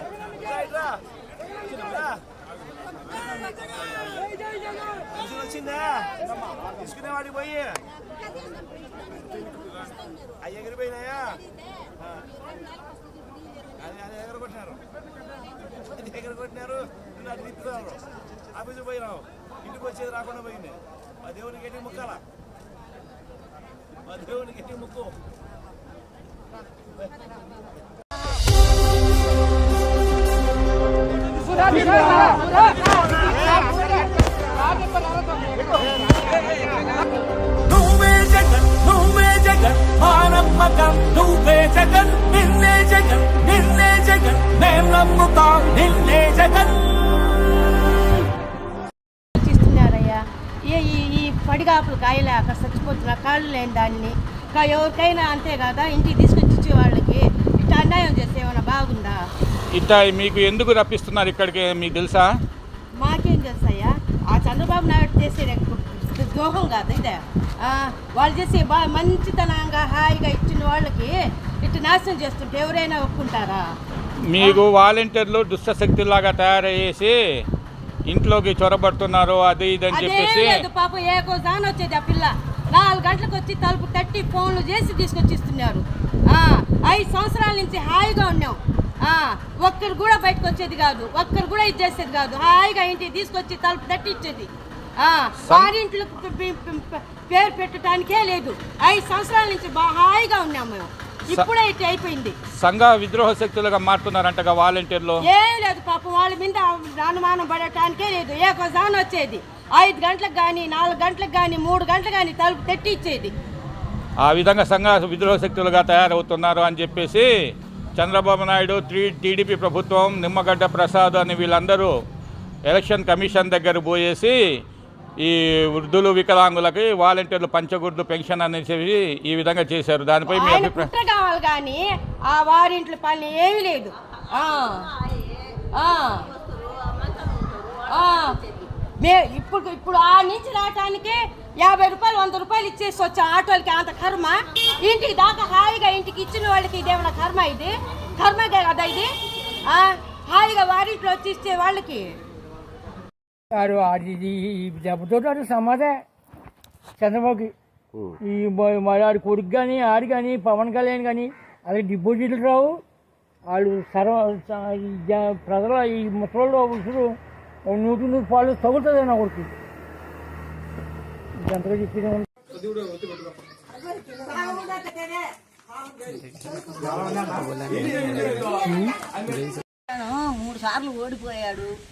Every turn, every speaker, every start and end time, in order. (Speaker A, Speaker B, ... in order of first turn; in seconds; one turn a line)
Speaker A: 0.5-1.0
Speaker A: 1.7-2.1
Speaker A: 5.2-6.2
Speaker A: 6.8-7.8
Speaker A: 10.4-11.4
Speaker A: 13.8-14.8
Speaker A: 15.9-18.0
Speaker A: 18.5-22.2
Speaker A: 24.1-25.1
Speaker B: 37.7-46.9
Speaker C: 49.4-59.2
Speaker D: 59.7-62.3
Speaker C: 63.0-73.7
Speaker D: 74.3-77.4
Speaker D: 78.1-80.6
Speaker C: 79.9-102.3
Speaker D: 95.4-95.7
Speaker D: 102.6-105.2
Speaker C: 105.2-113.3
Speaker D: 114.2-117.3
Speaker D: 118.0-121.9
Speaker D: 122.7-124.3
Speaker D: 125.2-130.9
Speaker C: 130.3-134.9
Speaker C: 135.7-136.3
Speaker E: 136.3-137.9
Speaker C: 137.9-138.4
Speaker C: 139.0-149.1
Speaker C: 149.7-152.2
Speaker F: 153.5-156.0
Speaker F: 157.0-157.5
Speaker F: 158.2-162.8
Speaker F: 163.5-169.5
Speaker F: 171.4-172.3
Speaker E: 179.9-181.7